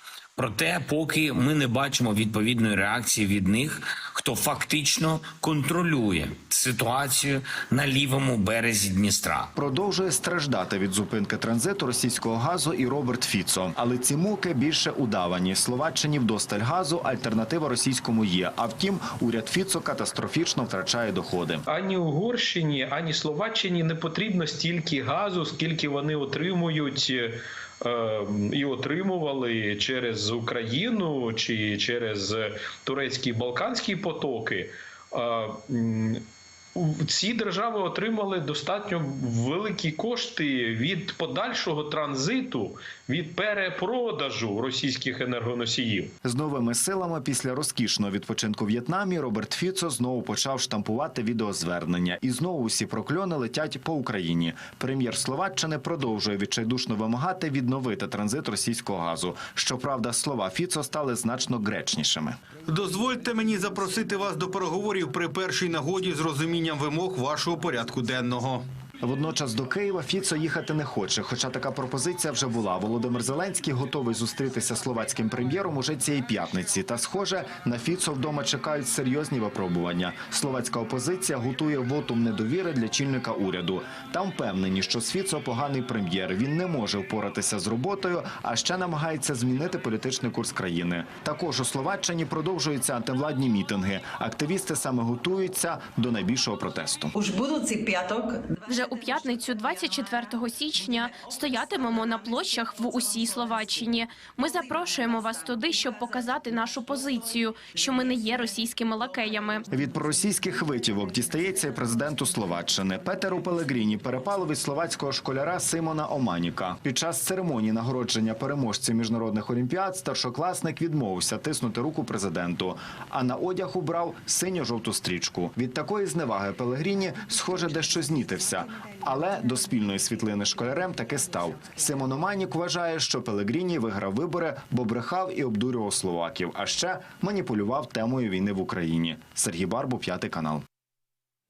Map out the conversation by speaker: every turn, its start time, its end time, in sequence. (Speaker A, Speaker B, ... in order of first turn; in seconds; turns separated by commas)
Speaker A: 0.4-9.5, Speaker B: 9.6-21.6, Speaker C: 21.7-36.2, Speaker C: 36.8-46.1, Speaker B: 46.2-62.4, Speaker D: 62.7-68.7, Speaker B: 69.0-97.1, Speaker E: 98.7-109.7, Speaker B: 109.7-140.6